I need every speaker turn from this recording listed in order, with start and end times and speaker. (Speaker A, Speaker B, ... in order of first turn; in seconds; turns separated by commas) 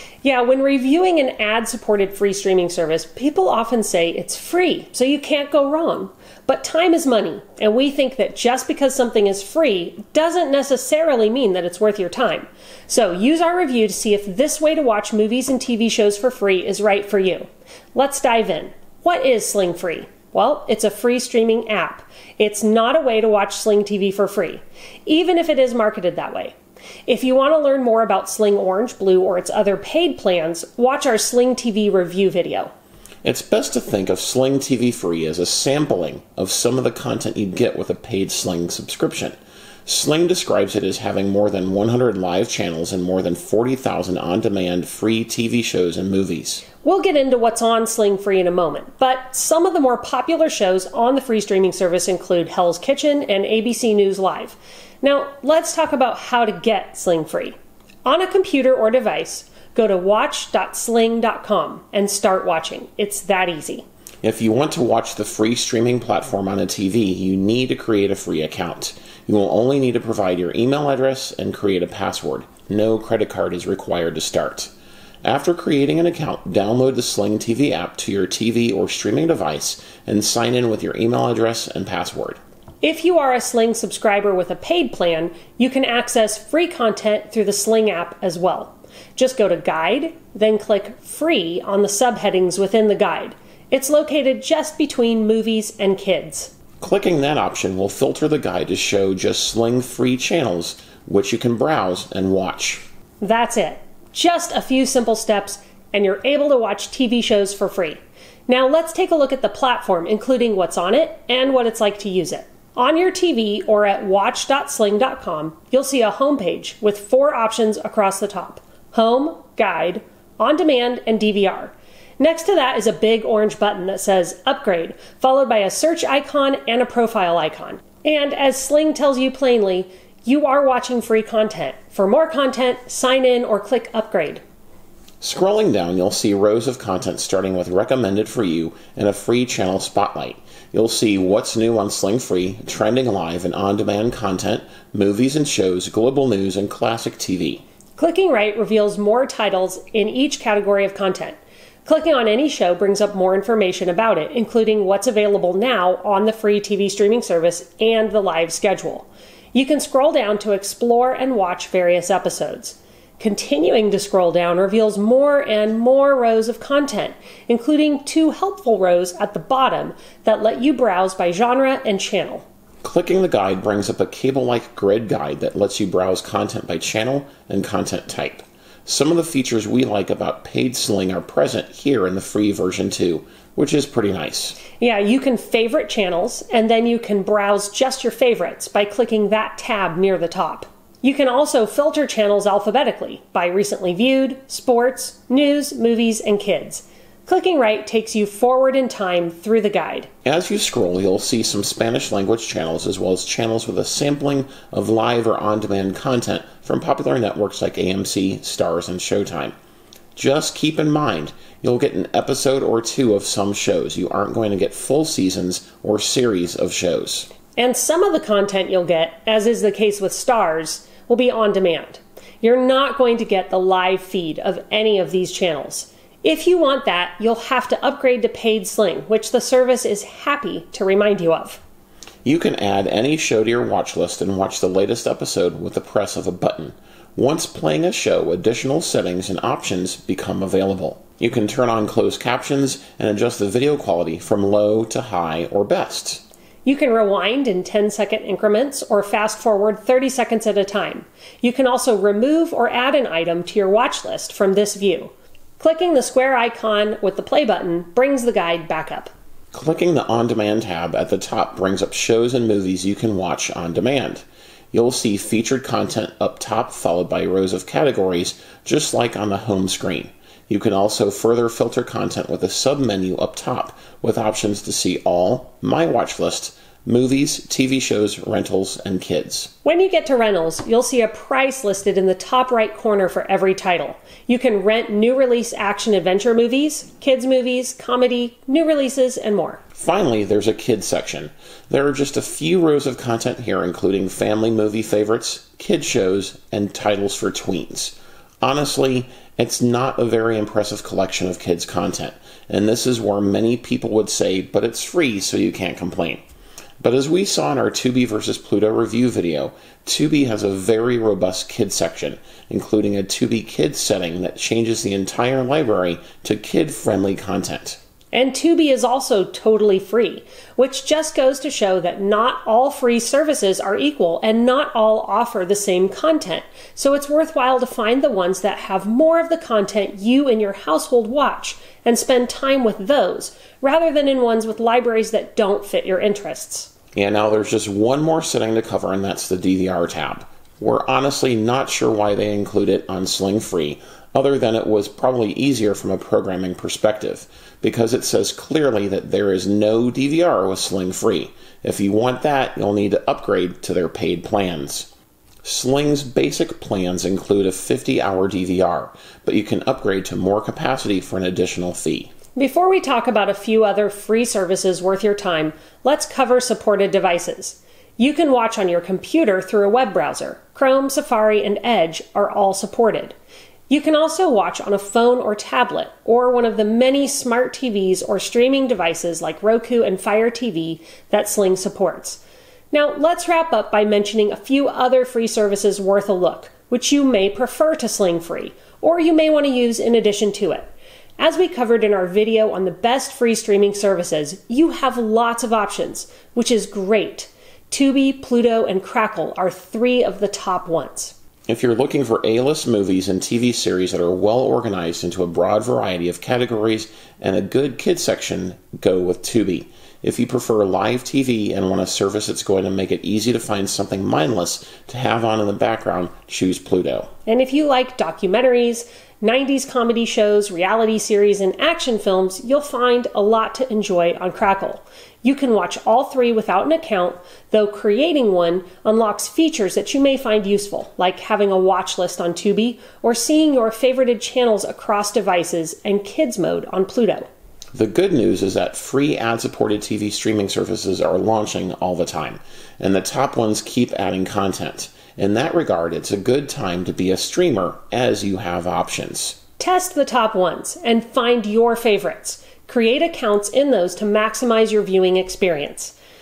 Speaker A: 0.2-26.6, Speaker A: 27.1-32.7, Speaker B: 33.2-46.6, Speaker A: 46.8-63.9, Speaker B: 64.2-82.4, Speaker A: 82.8-96.5, Speaker B: 96.8-102.8, Speaker A: 103.2-134.4, Speaker B: 135.2-147.6, Speaker A: 148.0-172.4, Speaker B: 172.8-184.6, Speaker A: 184.8-200.1, Speaker B: 200.2-209.5, Speaker B: 210.2-217.3, Speaker A: 217.6-231.6, Speaker B: 232.2-246.2, Speaker A: 246.7-259.1, Speaker B: 259.5-279.5, Speaker A: 279.6-289.6, Speaker B: 289.8-306.2, Speaker B: 306.8-317.8, Speaker A: 318.1-336.7, Speaker B: 336.9-354.9, Speaker B: 355.4-362.1, Speaker A: 362.4-373.1, Speaker A: 373.7-382.2, Speaker A: 382.7-401.1, Speaker B: 401.5-417.1, Speaker A: 417.3-437.3, Speaker B: 437.7-449.4, Speaker A: 449.6-455.9